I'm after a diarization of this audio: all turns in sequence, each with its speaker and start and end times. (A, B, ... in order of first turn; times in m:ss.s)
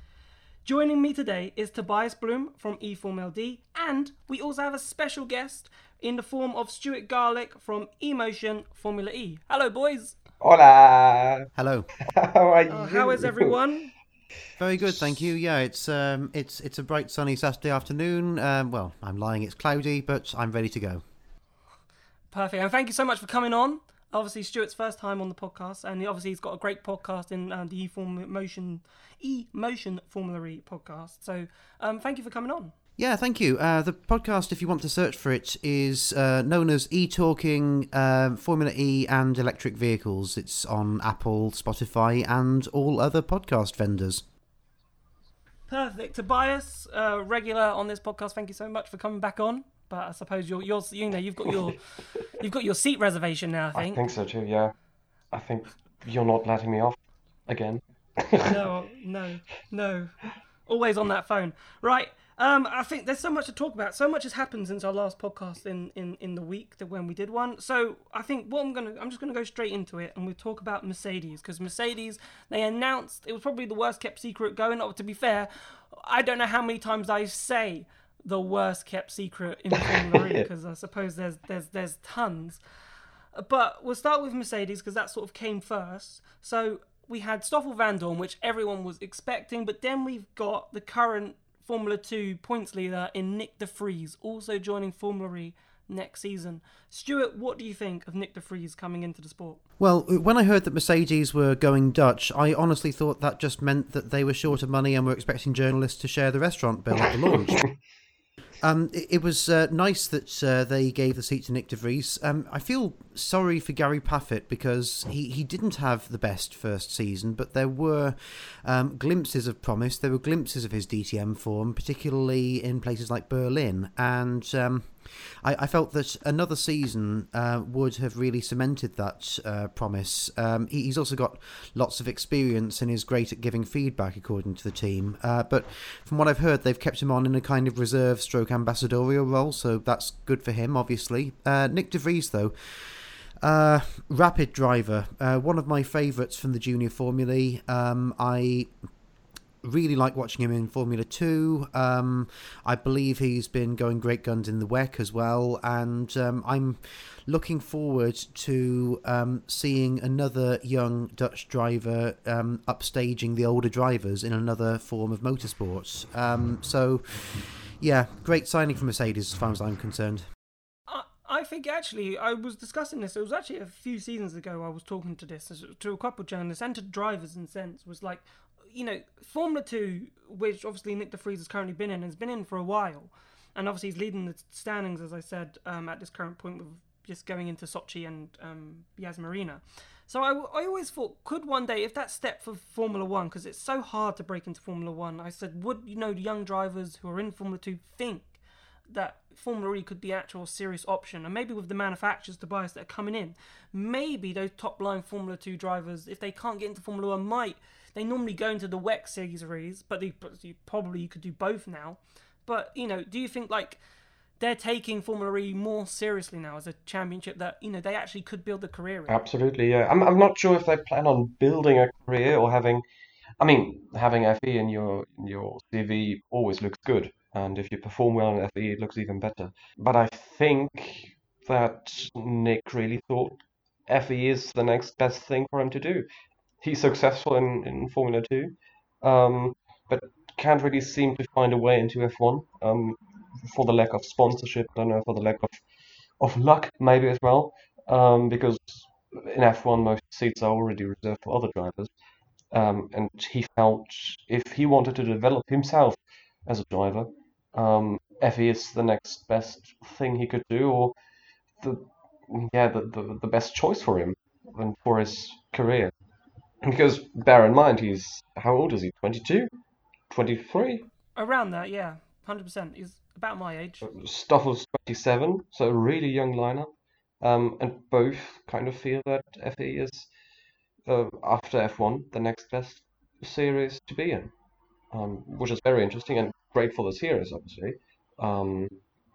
0:00.6-0:10.2 A
0:10.4-0:11.5 B
0:11.6-0:11.9 C
0:12.0-0:13.6 B
0:12.7-0:13.9 A
0:14.6-0:21.0 C
0:22.3-0:32.7 A
0:33.0-0:44.2 C
0:45.7-0:51.8 A
0:52.3-0:54.0 A
0:53.7-0:54.7 B
0:55.3-0:58.5 B
0:58.4-1:00.2 A
1:00.7-1:22.6 A
1:20.1-1:20.4 B
1:23.3-1:39.6 A
1:39.8-1:47.6 C
1:48.6-2:28.7 C
2:29.6-2:50.2 C
2:50.9-3:18.4 A
3:18.9-3:33.8 A
3:34.4-3:39.2 A
3:39.1-3:42.8 B
3:43.4-3:56.1 B
3:56.6-4:05.6 B
4:06.2-4:11.9 B
4:12.5-4:20.9 B
4:21.6-4:25.9 B
4:26.6-4:29.5 B
4:30.1-4:30.9 B
4:31.2-4:33.8 A
4:33.8-4:40.1 B
4:40.9-4:44.3 B
4:44.9-4:48.8 B